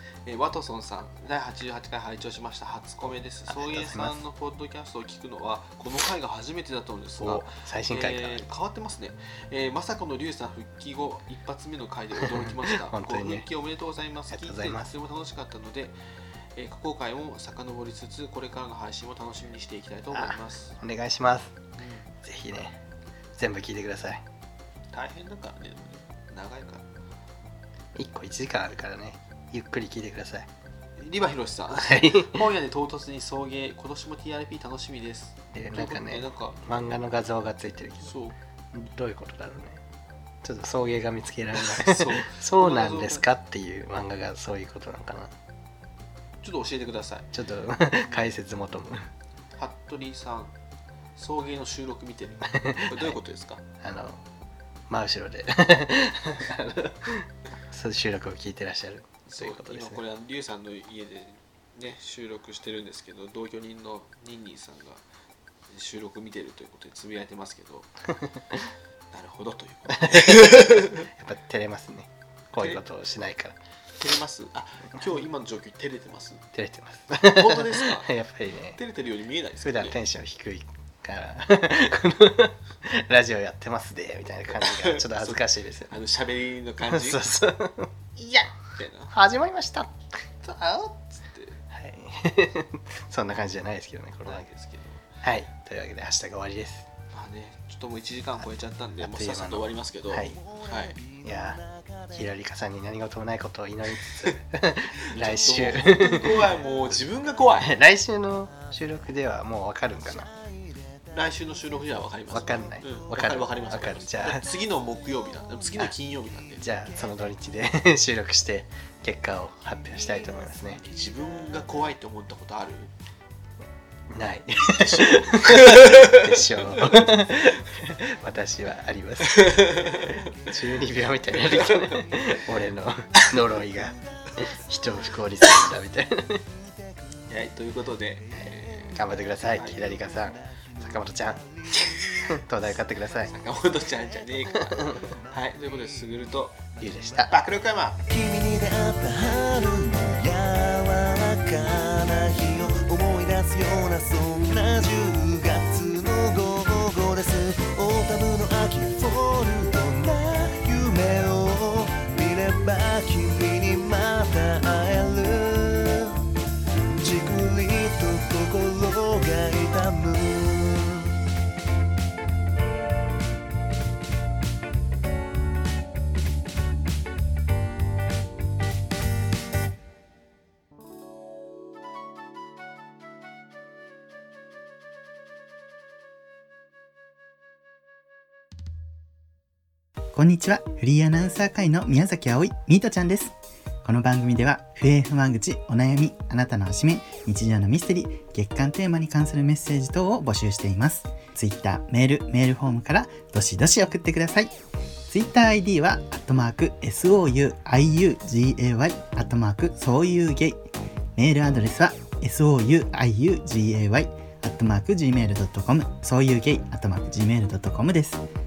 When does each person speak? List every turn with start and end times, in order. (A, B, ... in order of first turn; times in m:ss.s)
0:00.2-0:16.0 A
0:03.5-0:04.2 B
0:07.2-0:08.4 B
0:12.2-0:13.5 B
0:14.3-0:14.9 B
0:16.5-0:20.8 A
0:20.1-0:21.5 B
0:21.8-0:22.1 A
0:22.2-0:22.8 B
0:23.3-0:24.2 B
0:24.9-0:26.8 A
0:27.9-0:30.5 B
0:31.0-0:36.6 A
0:31.8-0:32.4 B
0:35.5-0:38.2 B
0:38.0-0:38.4 A
0:38.7-0:39.8 B
0:40.4-0:45.3 B
0:41.6-0:43.2 A
0:46.4-0:47.3 A
0:47.3-0:49.1 B
0:49.6-0:50.5 A
0:51.2-0:53.6 A
0:52.5-0:53.2 B
0:53.8-0:54.2 B
0:54.9-1:00.0 B
0:59.2-1:05.0 A
1:05.7-1:07.9 A
1:08.2-1:08.6 B
1:09.1-1:11.1 A
1:10.0-1:13.6 B
1:14.0-1:16.4 A
1:16.5-1:18.8 B
1:17.2-1:18.1 A
1:18.7-1:20.0 A
1:19.6-1:25.9 B
1:24.6-1:27.2 A
1:26.8-1:28.4 B
1:28.2-1:29.1 A
1:29.1-1:30.0 B
1:30.4-1:31.6 A
1:31.7-1:34.5 B
1:34.2-1:35.0 A
1:35.2-1:36.9 B
1:37.1-1:41.0 A
1:39.0-1:40.4 B
1:40.2-1:42.3 C
1:41.2-1:46.6 B
1:44.0-1:44.4 A
1:45.0-1:47.8 A
1:45.6-1:47.6 C
1:47.6-1:50.3 B
1:48.5-1:49.0 C
1:50.1-1:51.8 C
1:51.1-1:56.6 A
1:52.3-1:54.4 B
1:56.6-2:00.8 B
2:00.0-2:00.3 C
2:00.8-2:02.9 A
2:04.1-2:16.4 B
2:04.7-2:07.2 A
2:09.2-2:10.3 A
2:11.3-2:12.4 A
2:11.9-2:12.3 C
2:13.8-2:15.2 C
2:17.3-2:20.1 A
2:18.3-2:19.0 C
2:18.9-2:21.4 B
2:20.1-2:22.0 C
2:21.7-2:22.2 A
2:22.2-2:23.3 B
2:23.2-2:26.6 A
2:23.7-2:25.3 C
2:26.8-2:27.4 B
2:27.3-2:28.0 A
2:28.0-2:46.3 C
2:46.9-2:51.2 C
3:10.1-3:24.5 D
3:25.1-3:30.6 D
3:31.2-3:38.2 D